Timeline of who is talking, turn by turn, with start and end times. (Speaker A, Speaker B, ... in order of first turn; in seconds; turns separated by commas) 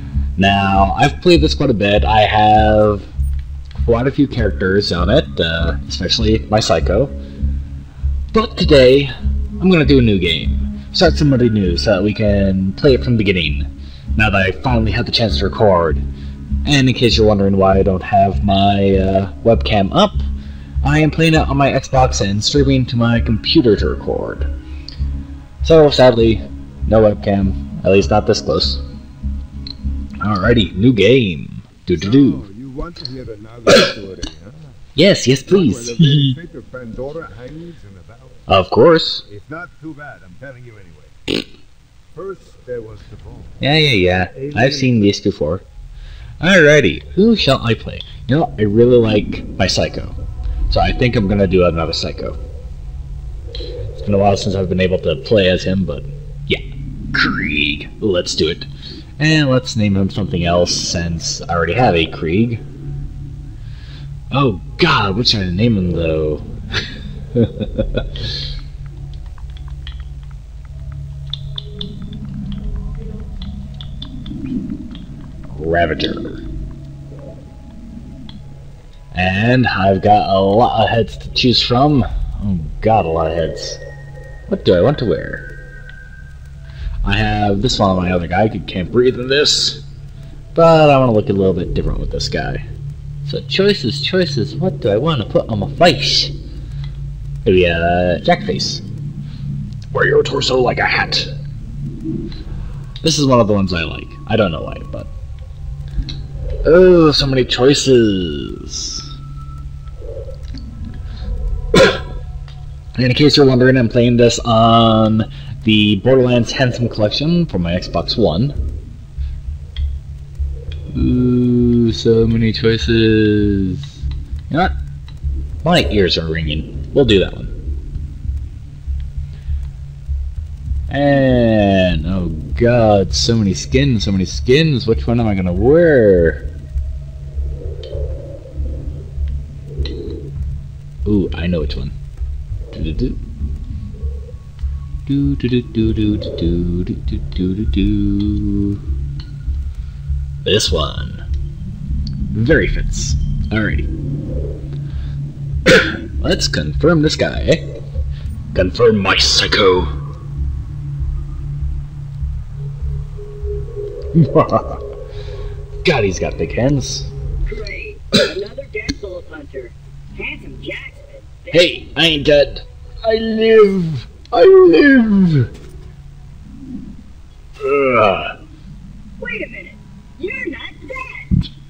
Speaker A: 0.4-3.1, Speaker A: 3.8-7.1, Speaker A: 8.3-16.0, Speaker A: 16.6-20.2, Speaker A: 20.8-24.5, Speaker A: 25.6-28.8, Speaker A: 30.2-32.5, Speaker B: 32.0-34.6, Speaker A: 35.0-36.4, Speaker B: 35.5-38.4, Speaker A: 38.5-39.2, Speaker B: 39.3-41.1, Speaker B: 42.1-43.5, Speaker A: 43.6-45.6, Speaker B: 44.4-44.8, Speaker A: 46.4-50.2, Speaker A: 50.7-52.4, Speaker A: 53.9-56.6, Speaker A: 57.1-62.6, Speaker A: 64.3-66.5, Speaker A: 67.3-68.2, Speaker A: 75.5-76.4, Speaker A: 79.1-83.8, Speaker A: 84.5-85.5, Speaker A: 87.0-89.8, Speaker A: 90.5-92.6, Speaker A: 93.2-96.3, Speaker A: 97.4-98.8, Speaker A: 99.9-101.3, Speaker A: 103.0-105.1, Speaker A: 106.6-109.1, Speaker A: 112.9-118.6, Speaker A: 120.9-124.0, Speaker A: 124.5-124.7, Speaker A: 125.6-127.5, Speaker A: 130.9-136.4, Speaker A: 141.0-141.9, Speaker A: 142.7-143.2, Speaker A: 145.1-148.8, Speaker A: 150.4-151.2, Speaker A: 152.3-153.9, Speaker A: 155.7-157.6, Speaker A: 158.5-159.9, Speaker A: 164.1-164.8, Speaker A: 165.8-167.1, Speaker C: 167.4-171.7, Speaker A: 171.5-175.5, Speaker A: 177.6-178.3, Speaker C: 179.2-181.4